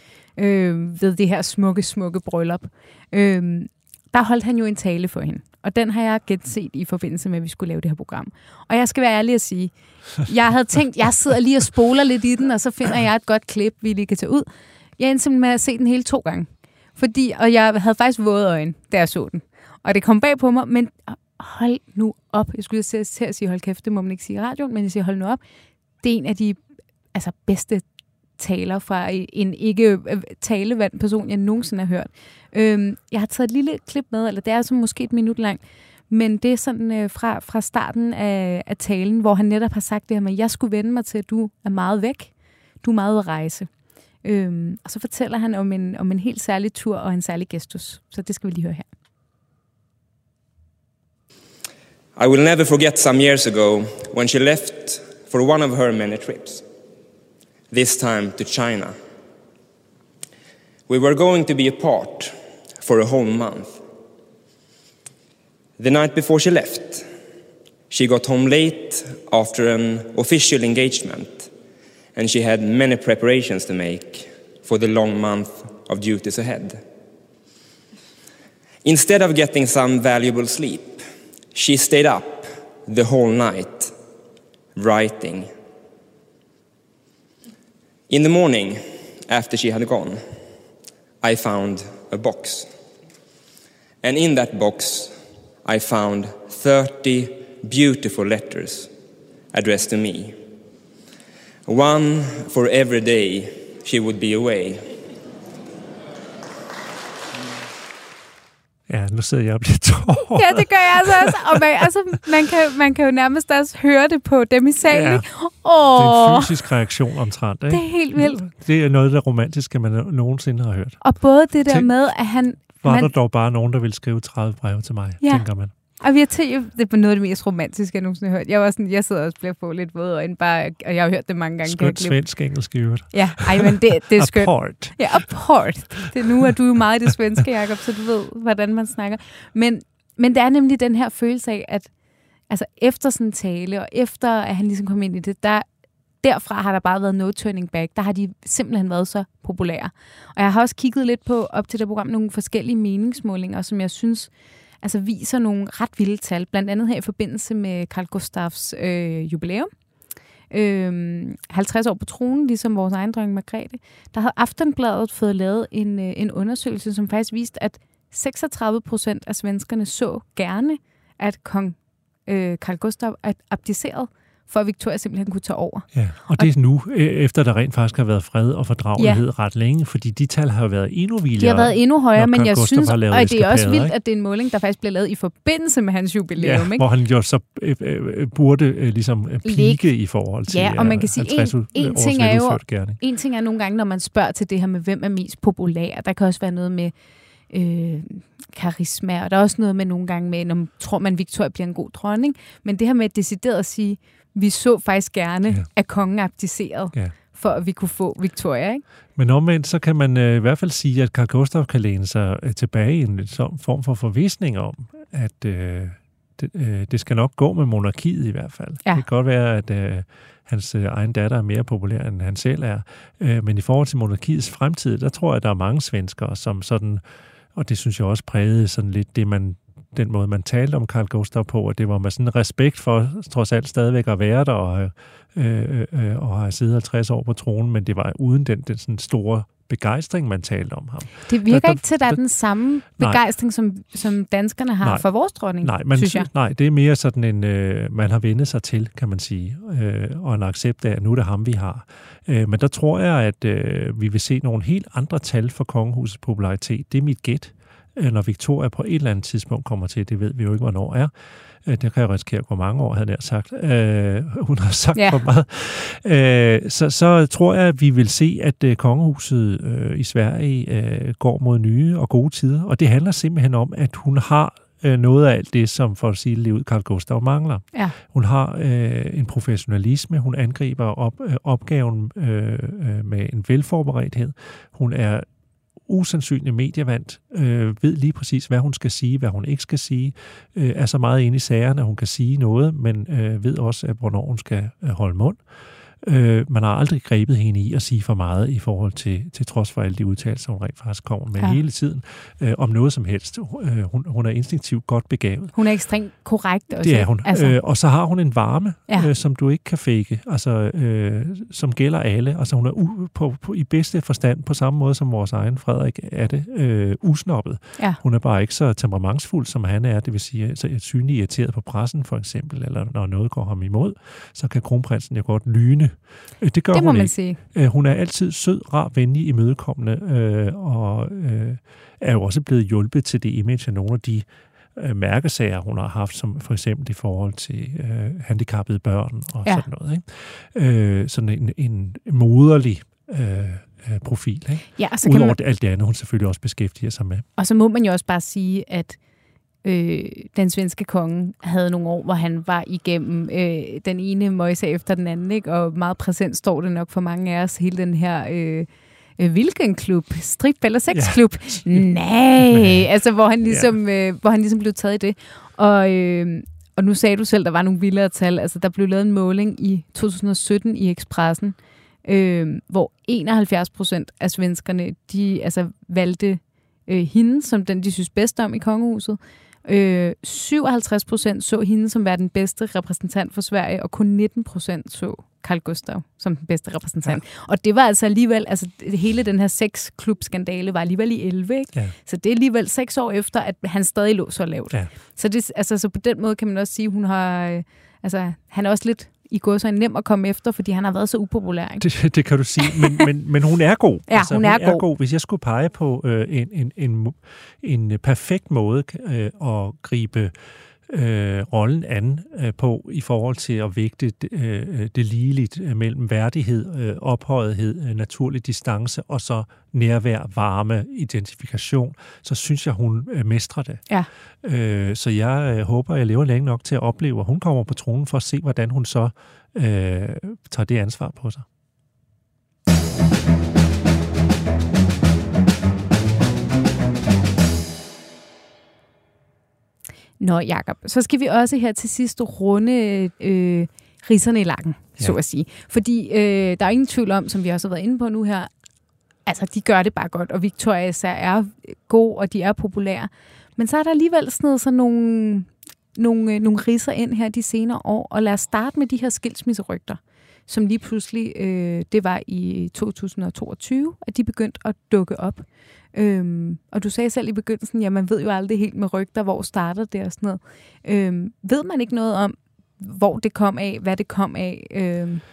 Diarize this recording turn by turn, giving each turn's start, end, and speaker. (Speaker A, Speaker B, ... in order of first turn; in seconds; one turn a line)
Speaker A: 0.3-25.4
Speaker A: 26.0-26.6
Speaker A: 27.1-27.8
Speaker A: 28.4-43.7
Speaker A: 44.2-48.9
Speaker B: 52.1-56.6
Speaker B: 57.7-58.9
Speaker B: 60.9-63.8
Speaker B: 65.8-67.1
Speaker B: 67.9-71.5
Speaker B: 72.1-76.8
Speaker B: 78.8-81.0
Speaker B: 81.5-83.9
Speaker B: 84.7-85.5
Speaker B: 88.1-90.2
Speaker B: 91.2-92.7
Speaker B: 94.0-98.9
Speaker B: 99.5-100.3
Speaker B: 101.7-104.9
Speaker C: 108.9-111.6
Speaker A: 110.3-116.7
Speaker C: 114.9-115.2
Speaker C: 115.9-121.9
Speaker A: 117.7-118.4
Speaker A: 121.0-123.1
Speaker C: 122.6-125.7
Speaker A: 125.2-132.2
Speaker C: 131.6-135.3
Speaker A: 133.1-141.9
Speaker A: 142.5-145.7
Speaker A: 146.2-159.7
Speaker A: 160.5-176.5
Speaker C: 175.9-183.9
Speaker A: 178.9-179.2
Speaker A: 181.4-186.8
Speaker C: 186.4-193.0
Speaker A: 189.4-189.8
Speaker A: 190.5-196.9
Speaker A: 197.5-208.8
Speaker C: 209.2-227.0
Speaker C: 227.5-242.2
Speaker A: 241.3-246.3
Speaker C: 242.8-243.2
Speaker C: 244.8-261.1
Speaker C: 261.6-285.2
Speaker C: 285.9-305.6
Speaker A: 305.5-307.6
Speaker C: 306.8-347.2
Speaker A: 326.7-327.4
Speaker A: 344.8-345.4
Speaker A: 347.4-349.0
Speaker A: 349.6-401.9
Speaker C: 360.9-362.9
Speaker C: 363.5-363.7
Speaker C: 401.8-410.3
Speaker A: 402.7-403.0
Speaker A: 404.1-404.8
Speaker C: 410.9-423.9
Speaker C: 424.4-431.4
Speaker A: 440.2-448.5
Speaker A: 449.2-475.2